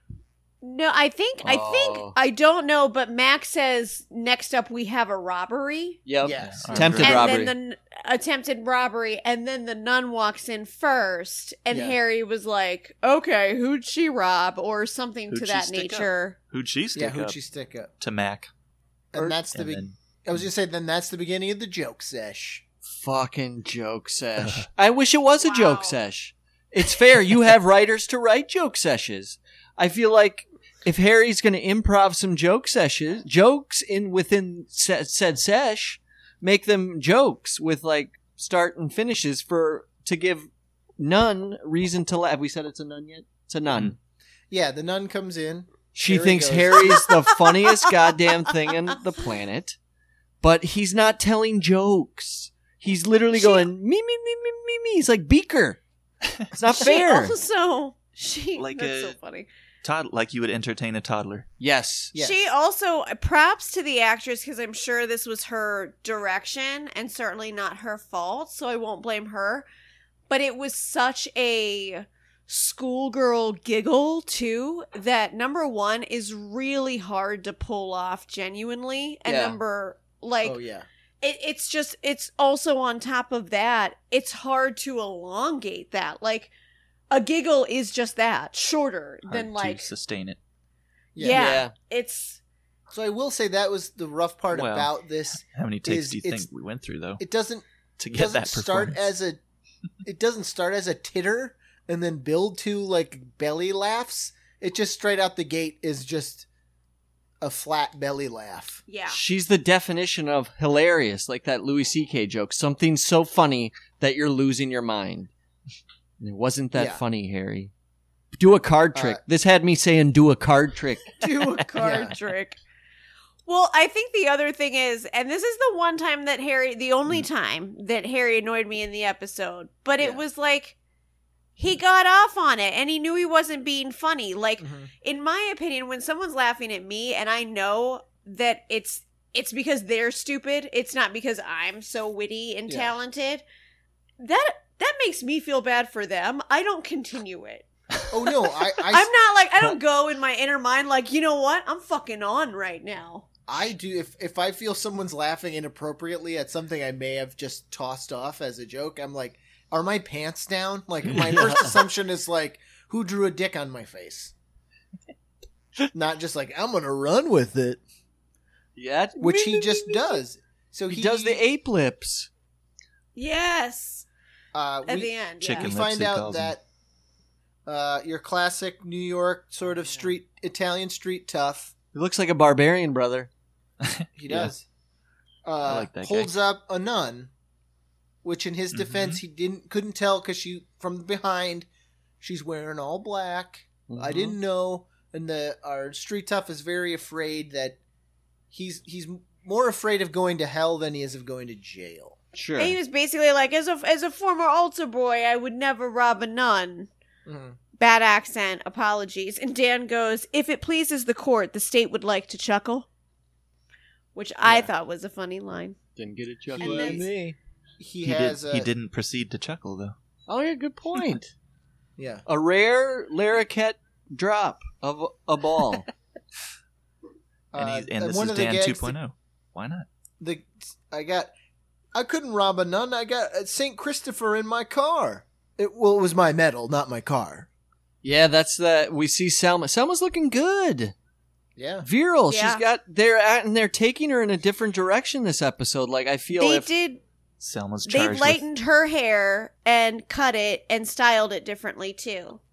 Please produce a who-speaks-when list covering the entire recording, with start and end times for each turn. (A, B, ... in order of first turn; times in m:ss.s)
0:00.6-0:06.0 A
0:01.4-0:02.2 B
0:06.0-0:07.5 B
0:06.2-0:07.1 C
0:06.4-0:07.4 D
0:07.0-0:16.4 A
0:11.7-0:12.0 C
0:15.3-0:17.4 D
0:16.9-0:17.9 C
0:18.0-0:18.5 D
0:19.1-0:22.6 C
0:19.2-0:20.0 D
0:22.8-0:43.9 B
0:25.2-0:26.0 A
0:44.5-0:47.1 C
0:45.9-0:49.8 B
0:50.4-0:55.8 B
0:53.3-0:53.7 A
0:56.5-0:57.3 B
0:56.7-0:59.5 A
0:58.6-0:59.2 D
0:59.8-1:01.5 D
1:01.6-1:02.1 B
1:02.1-1:02.4 C
1:02.2-1:09.7 A
1:10.3-1:20.6 A
1:19.2-1:19.6 B
1:20.4-1:20.9 C
1:21.2-1:26.5 A
1:27.1-1:29.9 A
1:29.2-1:30.4 D
1:31.1-1:31.6 C
1:31.2-1:32.4 A
1:31.3-1:31.7 B
1:32.9-1:36.5 C
1:34.5-1:37.2 D
1:37.2-1:39.4 C
1:38.0-1:39.0 D
1:40.0-1:46.4 C
1:47.4-1:48.8 C
1:48.9-1:49.2 A
1:49.1-1:55.3 B
1:56.2-1:57.7 B
1:56.7-1:57.0 C
1:58.4-2:01.1 B
1:58.9-1:59.2 C
2:01.2-2:02.6 A
2:01.7-2:02.1 C
2:03.4-2:10.8 A
2:11.6-2:23.4 A
2:14.6-2:14.9 C
2:22.7-2:22.9 C
2:24.2-2:27.7 A
2:28.1-2:29.1 C
2:28.8-2:33.2 A
2:33.5-2:44.3 C
2:41.3-2:41.8 B
2:45.9-2:47.8 C
2:48.8-2:50.2 B
2:49.2-2:51.4 C
2:50.9-2:52.3 B
2:53.2-2:54.1 A
2:54.5-2:56.6 C
2:54.8-2:55.7 A
2:55.4-2:56.5 D
2:57.6-3:01.7 C
2:59.8-3:00.1 B
3:01.9-3:03.3 B
3:03.8-3:04.5 D
3:04.2-3:04.6 C
3:05.4-3:07.3 C
3:05.6-3:06.3 D
3:08.2-3:11.7 C
3:08.7-3:09.2 D
3:12.2-3:17.8 C
3:13.9-3:14.4 B
3:18.5-3:22.2 C
3:22.3-3:22.8 B
3:22.6-3:26.9 A
3:27.2-3:27.6 C
3:27.8-3:32.9 A
3:34.1-3:35.8 A
3:34.4-3:34.7 C
3:36.0-3:37.4 B
3:36.6-3:37.1 C
3:36.6-3:37.0 A
3:37.8-3:38.7 C
3:38.0-3:39.9 D
3:40.3-3:41.3 B
3:42.0-3:42.2 C
3:42.3-3:45.9 B
3:47.5-3:49.0 C
3:47.6-3:49.9 D
3:50.2-3:51.3 C
3:51.9-3:57.5 C
3:58.0-4:00.9 B
4:01.6-4:01.9 C
4:01.8-4:06.7 B
4:02.3-4:02.6 A
4:06.3-4:07.0 A
4:07.4-4:08.4 D
4:07.8-4:12.4 A